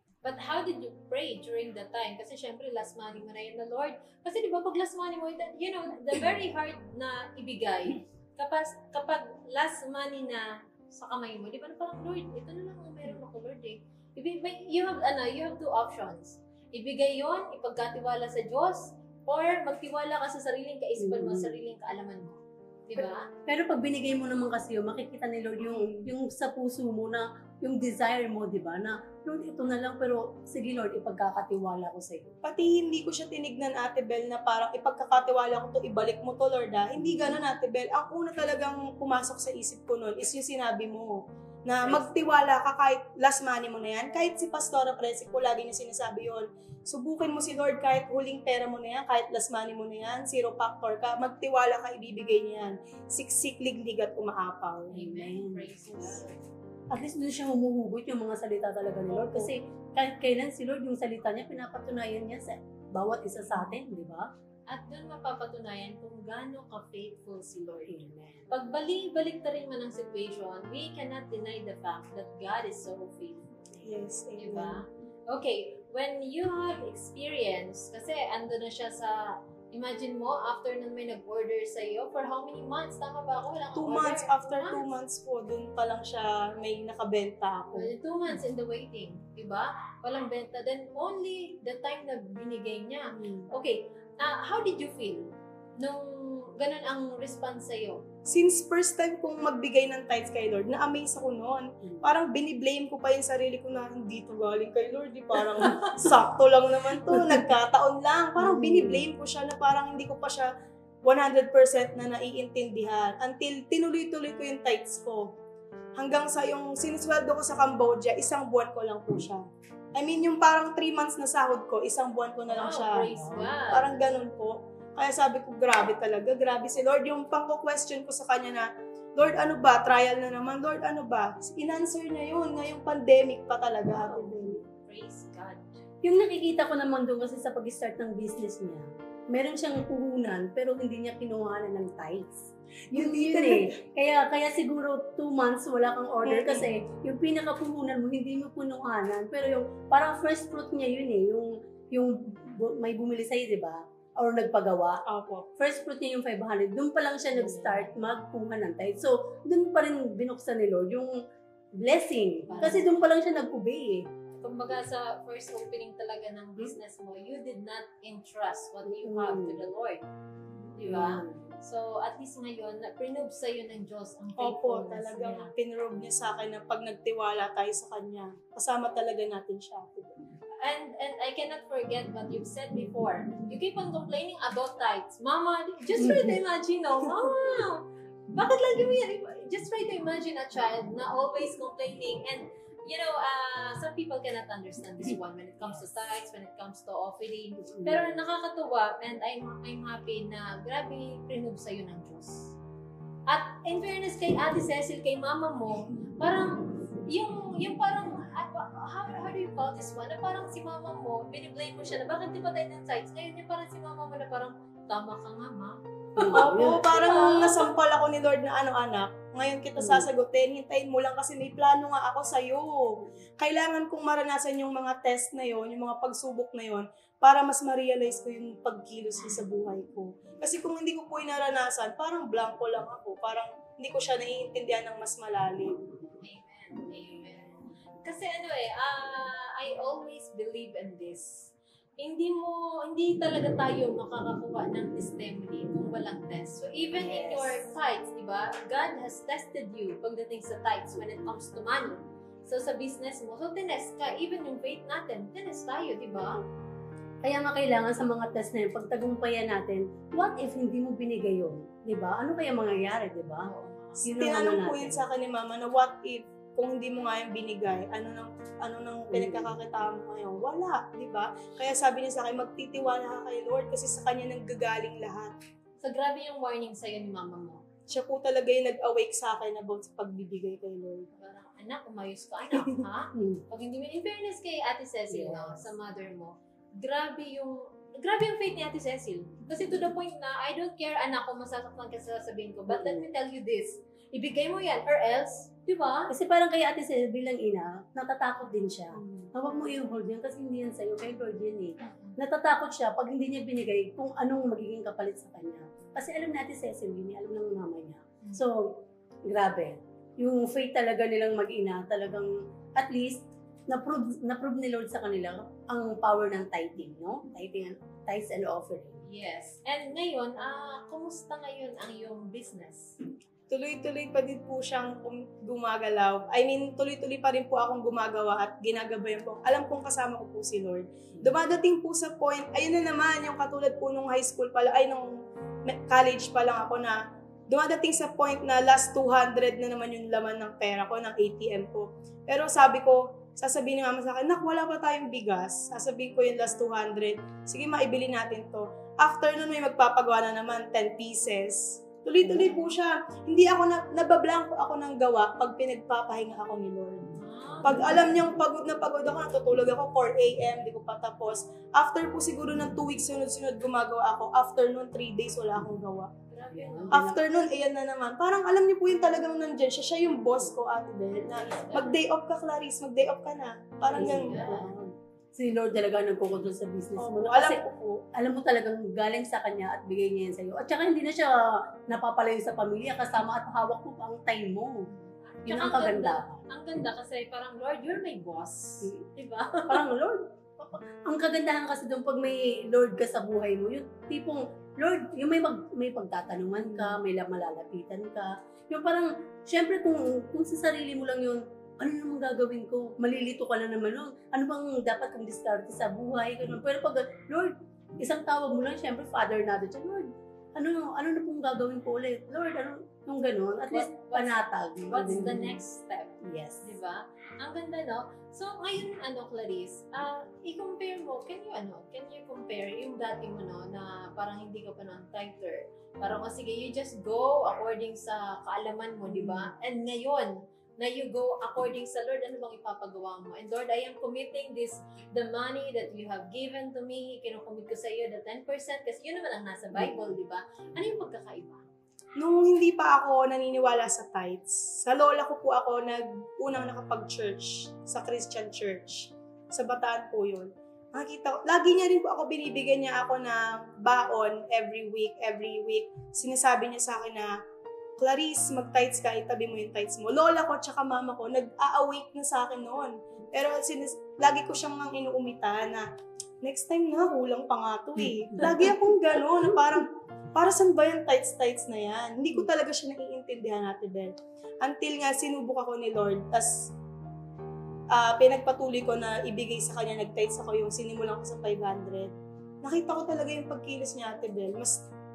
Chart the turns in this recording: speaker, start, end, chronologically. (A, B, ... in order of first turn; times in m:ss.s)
0:00.2-0:23.3 A
0:21.0-0:21.6 B
0:23.5-0:32.4 B
0:32.4-0:54.9 C
0:37.0-0:37.4 B
0:54.9-0:56.4 A
0:55.0-0:56.2 B
0:56.9-1:04.3 B
0:59.1-0:59.5 C
1:04.7-1:13.8 A
1:07.9-1:08.5 B
1:13.8-1:14.8 C
1:14.4-1:24.9 A
1:23.8-1:27.9 C
1:27.8-1:38.0 A
1:38.3-1:50.5 C
1:48.4-1:49.0 B
1:51.0-1:55.3 C
1:56.0-1:59.4 C
2:00.0-2:14.6 C
2:02.5-2:04.1 A
2:13.9-2:15.8 A
2:16.0-2:35.0 B
2:22.9-2:23.7 C
2:26.3-2:26.7 C
2:35.1-2:35.5 C
2:35.6-2:41.1 B
2:37.3-2:38.0 A
2:41.8-2:44.1 B
2:42.5-2:43.0 A
2:44.4-2:50.0 A
2:48.8-2:49.6 B
2:50.8-2:55.5 A
2:50.8-2:51.6 B
2:54.4-3:00.2 C
3:00.6-3:22.6 A
3:06.0-3:06.4 B
3:17.6-3:18.2 B
3:23.3-3:37.7 A
3:36.2-3:36.9 B
3:36.4-3:55.8 C
3:39.8-3:40.1 B
3:56.2-4:16.4 A
4:07.0-4:07.7 B
4:17.2-4:23.5 B
4:23.5-4:24.1 A
4:24.0-4:25.0 B
4:24.1-4:35.3 C
4:29.1-4:29.5 B
4:35.8-4:37.6 A
4:37.9-4:41.1 C
4:41.2-4:56.1 A
4:43.2-4:43.4 B
4:45.1-4:45.7 B
4:52.7-4:53.1 B
4:56.1-5:19.0 B
5:01.8-5:02.2 A
5:19.1-5:22.9 A
5:23.5-5:35.1 C
5:35.7-5:37.0 C
5:37.5-5:57.1 C
5:52.2-5:52.5 B
5:57.2-5:58.0 A
5:57.6-6:06.1 C
6:06.3-6:07.1 A
6:06.5-6:07.2 B
6:06.9-6:14.5 C
6:11.3-6:12.0 A
6:13.9-6:14.7 A
6:13.9-6:17.6 B
6:17.0-6:18.0 C
6:18.2-6:24.8 B
6:24.9-6:29.8 A
6:25.5-6:26.4 B
6:29.7-6:50.0 B
6:36.6-6:37.0 A
6:50.6-6:55.6 B
6:53.7-7:21.6 A
6:56.2-6:56.7 B
7:09.1-7:09.5 B
7:19.7-7:20.1 B
7:22.2-7:37.3 C
7:38.0-7:45.9 C
7:46.4-7:56.6 C
7:48.0-7:48.7 B
7:57.9-8:02.1 C
8:02.6-8:04.8 C